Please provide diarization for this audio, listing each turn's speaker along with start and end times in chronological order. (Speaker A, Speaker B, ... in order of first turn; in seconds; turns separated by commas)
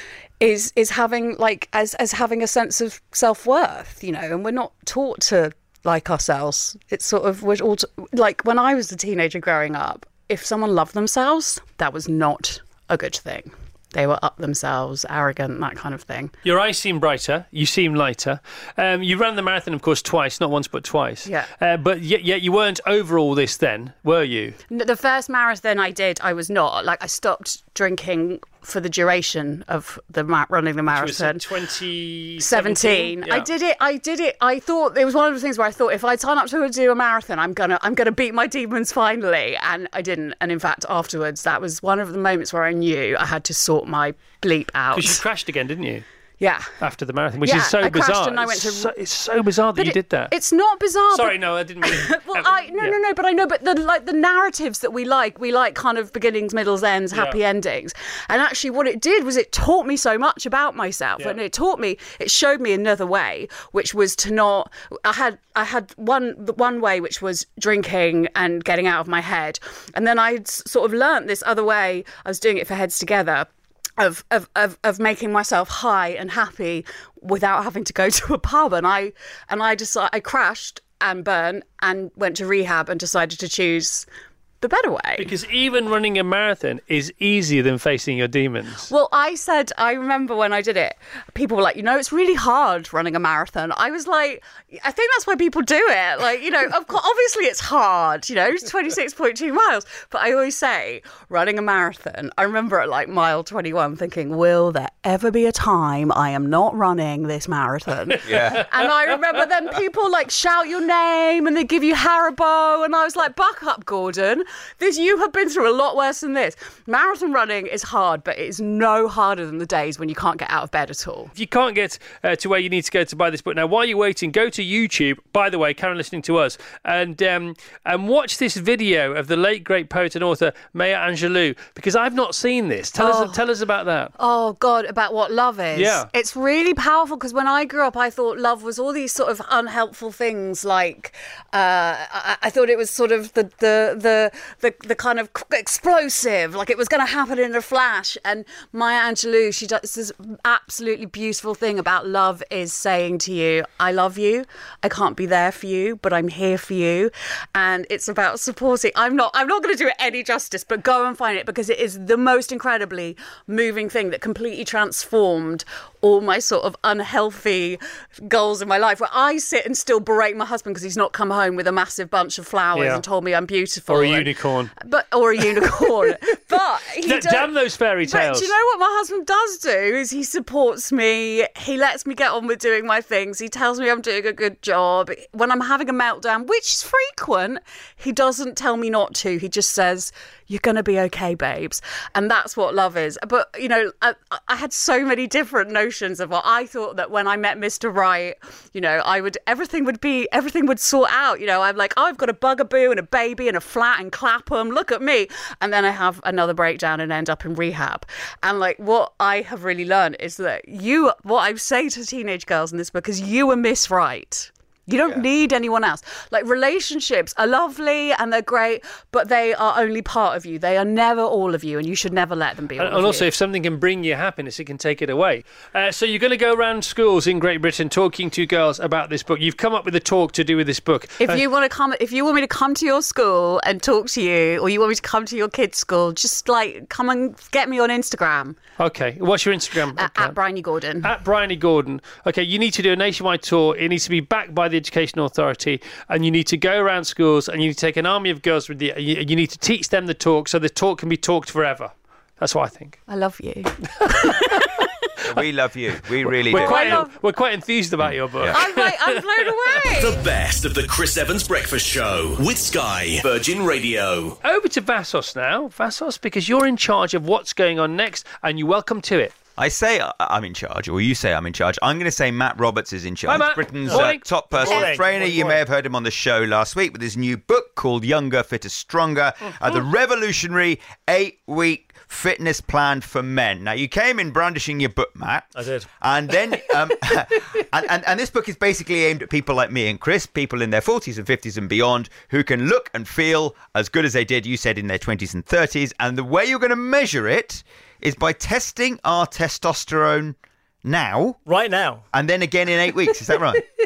Speaker A: 0.4-16.3, Speaker B: 16.4-24.6, Speaker A: 24.7-31.5, Speaker B: 30.9-33.5, Speaker A: 32.4-45.2, Speaker B: 44.9-46.0, Speaker A: 46.4-46.7, Speaker B: 46.8-50.3, Speaker A: 47.4-48.9, Speaker A: 49.8-84.1, Speaker B: 51.1-53.0, Speaker B: 57.1-57.4, Speaker A: 84.6-85.3, Speaker B: 85.2-88.9, Speaker A: 88.9-121.3, Speaker C: 108.2-108.6, Speaker B: 121.3-134.1, Speaker A: 133.0-133.4, Speaker A: 134.2-174.3, Speaker B: 135.7-136.1, Speaker B: 172.7-173.0, Speaker B: 173.9-174.7, Speaker A: 174.8-177.5, Speaker B: 175.6-175.9, Speaker B: 177.0-178.5, Speaker A: 178.0-223.3, Speaker B: 222.8-231.4, Speaker A: 231.2-238.6, Speaker B: 238.8-240.4, Speaker A: 239.9-241.1, Speaker B: 241.0-253.0, Speaker A: 253.1-254.9, Speaker C: 255.2-257.0, Speaker B: 256.4-259.5, Speaker A: 256.5-257.1, Speaker A: 258.5-260.2, Speaker D: 260.0-264.4, Speaker B: 264.4-269.4, Speaker C: 269.6-301.4, Speaker B: 273.3-275.0, Speaker E: 273.9-275.6, Speaker E: 285.5-285.9, Speaker E: 301.4-302.0, Speaker C: 302.1-303.6